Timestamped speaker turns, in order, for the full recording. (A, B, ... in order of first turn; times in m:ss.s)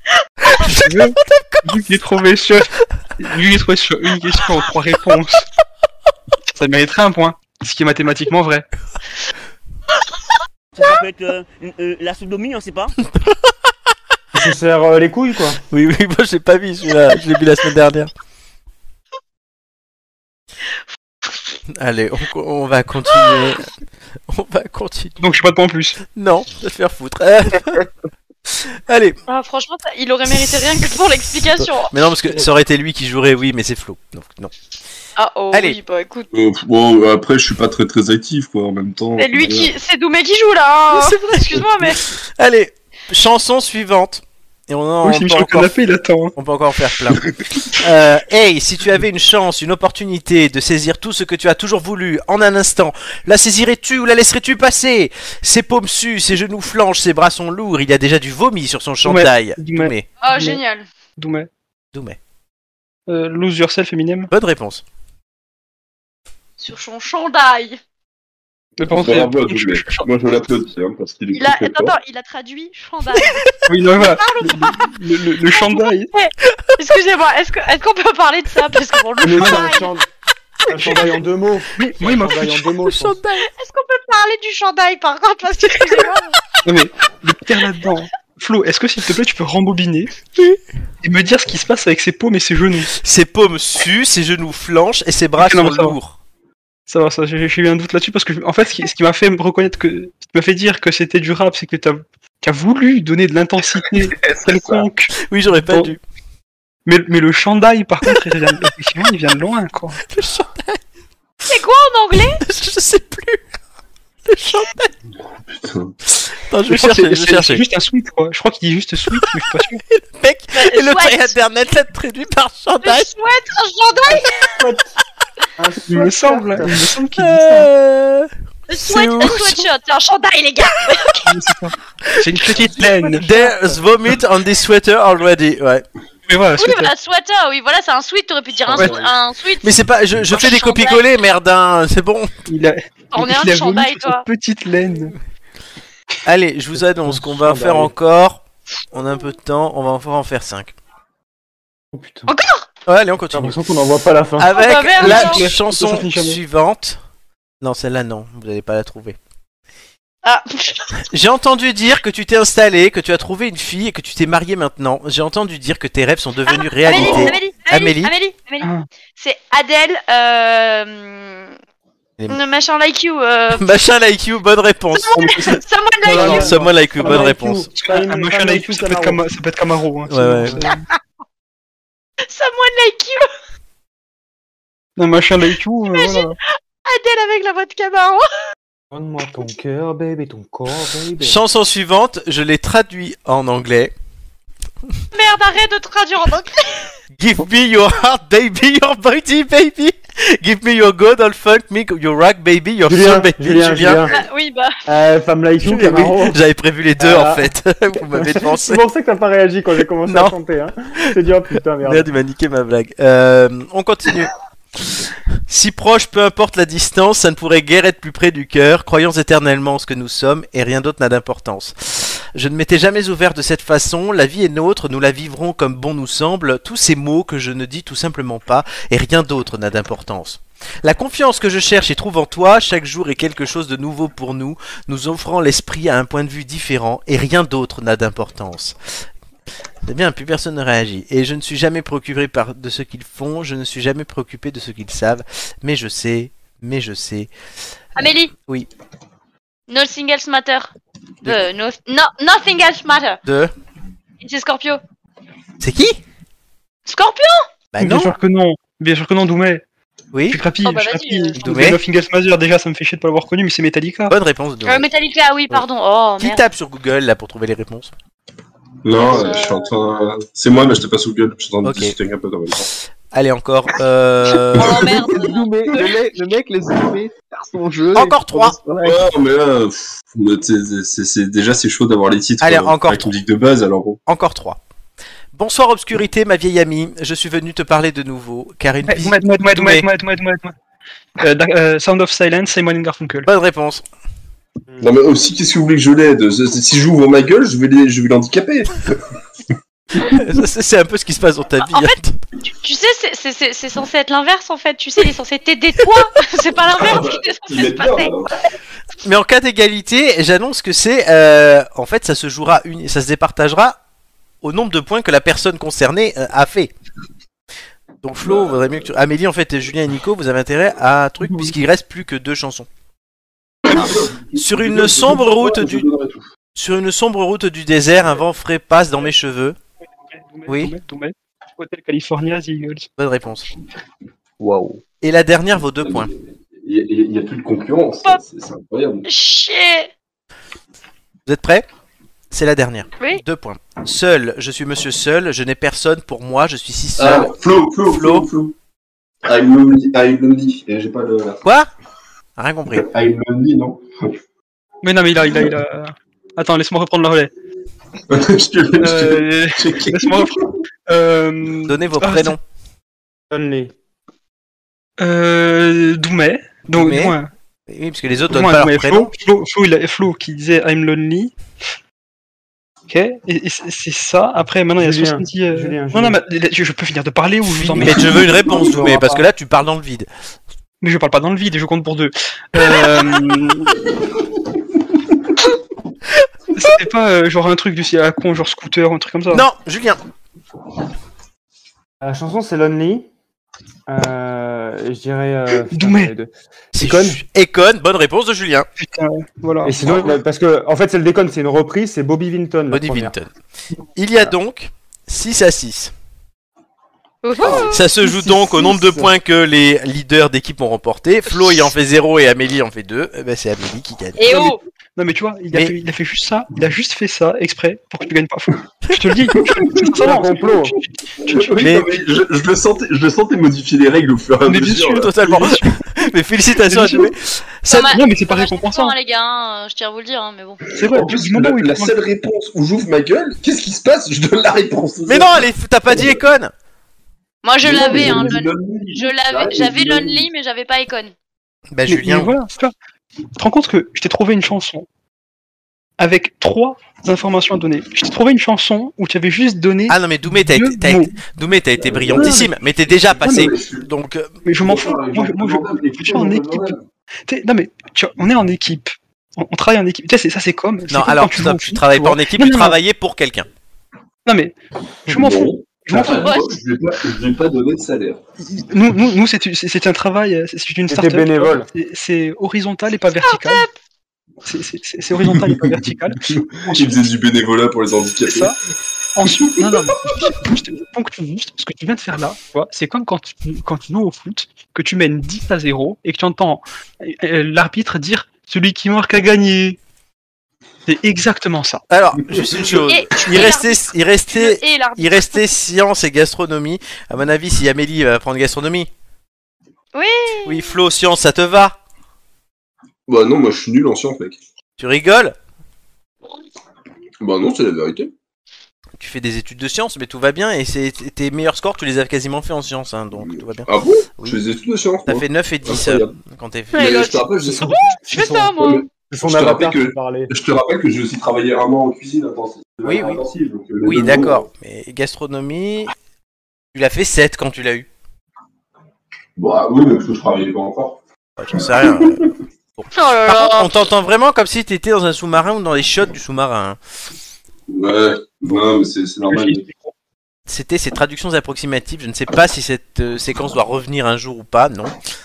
0:00.5-0:01.6 A
0:00.7-0:05.5 B
0:06.5-0:08.7 B
0:10.8-0:13.0 C
0:13.0-0:13.5 A
0:14.3-0:15.6 D
0:15.7-0:18.1 A
0:21.7-0:23.7 A
0:24.3-0:25.2 A
0:25.2-0:26.0 B
0:26.1-0:27.8 A
0:28.5-0:29.2 A
0:29.3-0:31.9 E
0:31.6-0:34.5 A
0:35.2-0:36.3 E
0:35.5-0:35.8 A
0:36.3-0:39.8 F
0:39.2-0:42.0 E
0:40.9-0:45.7 A
0:45.0-0:46.3 B
0:46.4-0:47.2 A
0:47.8-1:00.1 A
0:59.0-1:00.6 B
1:00.2-1:00.9 E
1:01.2-1:01.5 B
1:03.1-1:04.3 B
1:04.3-1:04.8 A
1:06.6-1:07.8 E
1:08.8-1:10.1 B
1:08.8-1:12.0 F
1:11.3-1:13.4 E
1:13.7-1:16.1 B
1:14.0-1:14.9 E
1:15.4-1:19.9 E
1:19.2-1:20.1 D
1:19.4-1:19.7 B
1:20.7-1:23.2 D
1:21.8-1:22.8 B
1:22.8-1:23.5 A
1:23.5-1:26.4 E
1:26.6-1:30.1 B
1:31.0-1:32.9 B
1:33.0-1:36.2 A
1:35.4-1:36.0 B
1:36.9-1:46.0 B
1:44.1-1:44.9 G
1:45.2-1:46.0 A
1:46.9-1:50.0 B
1:50.1-1:50.8 A
1:51.5-1:52.4 E
1:52.4-1:53.4 A
1:54.3-1:54.9 A
1:55.5-1:55.9 F
1:56.3-1:57.6 A
1:56.7-1:59.8 B
1:59.9-2:03.1 A
2:00.5-2:01.3 E
2:02.8-2:04.6 E
2:04.1-2:05.0 D
2:05.6-2:06.8 D
2:05.9-2:07.7 B
2:07.2-2:09.7 A
2:08.7-2:11.3 E
2:11.2-2:13.6 B
2:12.1-2:15.8 A
2:16.3-2:16.9 B
2:16.6-2:19.8 E
2:18.8-2:19.1 B
2:19.6-2:22.3 A
2:20.3-2:21.0 E
2:22.5-2:25.2 B
2:23.1-2:24.2 E
2:26.2-2:30.8 A
2:27.1-2:27.9 D
2:31.9-2:32.3 D
2:32.3-2:32.7 E
2:32.9-2:33.6 A
2:33.3-2:34.5 D
2:34.4-2:37.0 A
2:34.5-2:35.4 E
2:35.0-2:36.4 B
2:37.6-2:39.2 A
2:40.2-2:40.9 E
2:41.1-2:48.1 A
2:46.5-2:51.5 E
2:48.6-2:48.9 B
2:52.3-2:53.8 E
2:53.6-2:55.3 A
2:54.9-2:56.6 E
2:55.2-2:56.6 B
2:56.1-2:59.2 D
2:56.2-2:57.7 A
2:57.8-3:00.8 B
3:00.1-3:00.5 A
3:00.5-3:00.7 D
3:02.3-3:03.3 E
3:05.0-3:06.4 B
3:05.9-3:06.4 E
3:06.9-3:08.3 E
3:08.9-3:11.4 D
3:11.2-3:13.9 A
3:15.1-3:16.9 E
3:17.2-3:24.0 A
3:22.9-3:24.2 D
3:24.1-3:24.8 E
3:24.9-3:26.4 D
3:25.6-3:28.8 A
3:27.0-3:27.5 D
3:28.1-3:32.1 D
3:30.1-3:30.4 A
3:31.8-3:34.3 A
3:35.5-3:58.8 A
3:59.9-4:07.3 A
4:08.0-4:08.3 E
4:08.4-4:08.7 A
4:09.7-4:10.7 E
4:11.2-4:13.2 E
4:13.2-4:13.5 A
4:14.2-4:14.8 E
4:15.6-4:16.0 A
4:16.9-4:17.5 E
4:17.7-4:18.2 A
4:17.8-4:19.6 B
4:20.1-4:20.4 A
4:20.3-4:24.2 B
4:20.6-4:21.4 E
4:21.4-4:21.8 A
4:24.1-4:24.9 A
4:24.7-4:26.4 E
4:26.2-4:27.9 A
4:28.8-4:32.7 F
4:29.0-4:29.7 E
4:31.6-4:32.0 A
4:33.1-4:34.8 A
4:34.6-4:36.0 E
4:34.8-4:39.0 G
4:38.0-4:38.6 A
4:38.8-4:44.0 F
4:42.4-4:43.2 A
4:44.1-4:44.6 A
4:45.3-4:49.8 A
4:48.9-4:50.6 B
4:51.2-4:53.3 B
4:53.2-4:53.8 A
4:54.7-4:55.0 D
4:54.8-4:59.0 F
5:00.0-5:02.2 A
5:01.6-5:08.1 E
5:06.7-5:08.3 F
5:09.0-5:13.8 A
5:14.4-5:16.7 A
5:18.0-5:22.7 A
5:18.2-5:18.8 F
5:23.7-5:26.3 F
5:24.4-5:25.9 A
5:26.6-5:29.6 A
5:30.1-5:32.9 B
5:30.5-5:30.7 A
5:33.0-5:33.5 A
5:34.4-5:34.8 G
5:35.0-5:36.1 A
5:35.8-5:39.1 F
5:39.1-5:39.9 E
5:41.3-5:41.7 A
5:42.3-5:47.3 A
5:47.0-5:48.5 F
5:47.8-5:48.3 A
5:49.2-5:51.4 F
5:51.4-5:51.7 A
5:52.4-5:52.9 A
5:52.8-5:53.8 F
5:54.8-5:57.3 B
5:58.1-6:00.5 F
5:58.8-6:02.4 B
6:01.7-6:02.4 A
6:03.3-6:03.7 D
6:05.0-6:07.3 B
6:06.7-6:07.2 A
6:07.7-6:09.1 A
6:08.3-6:11.3 B
6:12.9-6:18.3 B
6:14.8-6:16.2 D
6:17.4-6:20.1 A
6:17.9-6:19.3 D
6:20.8-6:23.8 B
6:26.6-6:29.5 B
6:29.3-6:30.0 A
6:32.0-6:33.1 D
6:33.9-6:37.2 D
6:35.7-6:36.1 B
6:36.8-6:38.7 A
6:38.8-6:40.0 B
6:39.6-6:43.1 D
6:42.7-6:43.3 A
6:44.0-6:45.9 A
6:47.2-6:47.8 E
6:47.7-6:54.3 A
6:51.3-6:51.6 E
6:54.2-6:54.6 E
6:54.3-7:01.8 B
6:59.4-6:59.9 F
7:00.0-7:00.8 D
7:01.2-7:05.1 F
7:04.4-7:05.6 B
7:04.9-7:07.9 A
7:06.6-7:07.2 B
7:07.7-7:10.7 E
7:07.7-7:09.0 B
7:10.7-7:16.2 F
7:10.7-7:12.0 B
7:15.1-7:16.5 A
7:17.4-7:21.1 E
7:17.6-7:20.3 F
7:21.7-7:22.3 A
7:21.9-7:22.7 B
7:23.4-7:24.9 B
7:26.0-7:31.2 B
7:29.9-7:34.3 A
7:31.8-7:32.5 F
7:32.2-7:32.5 B
7:33.1-7:33.9 F
7:33.3-7:33.5 B
7:34.4-7:36.7 B
7:34.6-7:36.8 F
7:37.3-7:42.8 B
7:40.9-7:43.5 A
7:44.3-7:44.6 B
7:45.1-7:46.3 B
7:45.1-7:48.2 F
7:46.2-7:46.4 E
7:48.5-7:53.7 B
7:50.9-7:51.7 D
7:53.2-7:53.7 E
7:54.4-7:57.0 B
7:55.3-7:55.6 F
7:56.2-7:58.5 F
7:58.2-7:58.6 B
7:59.2-8:09.8 B
7:59.3-8:00.3 F
8:10.9-8:11.8 B
8:11.9-8:18.9 A
8:12.4-8:12.8 F
8:12.9-8:15.5 E
8:19.9-8:20.8 E
8:20.5-8:21.8 A
8:23.1-8:24.4 F
8:24.8-8:25.4 A
8:27.2-8:28.1 F
8:29.0-8:34.4 A
8:33.2-8:36.2 F
8:35.1-8:36.9 A
8:36.7-8:37.8 F
8:36.7-8:38.8 E
8:37.5-8:38.6 D
8:38.6-8:44.4 F
8:39.1-8:40.3 D
8:42.8-8:43.2 A
8:43.8-8:45.9 A
8:46.7-8:47.9 A
8:49.4-8:51.0 F
8:51.4-8:56.8 A
8:51.6-8:52.3 F
8:52.9-8:53.9 E
8:57.7-8:59.6 F
8:59.3-8:59.9 B
9:00.5-9:04.9 A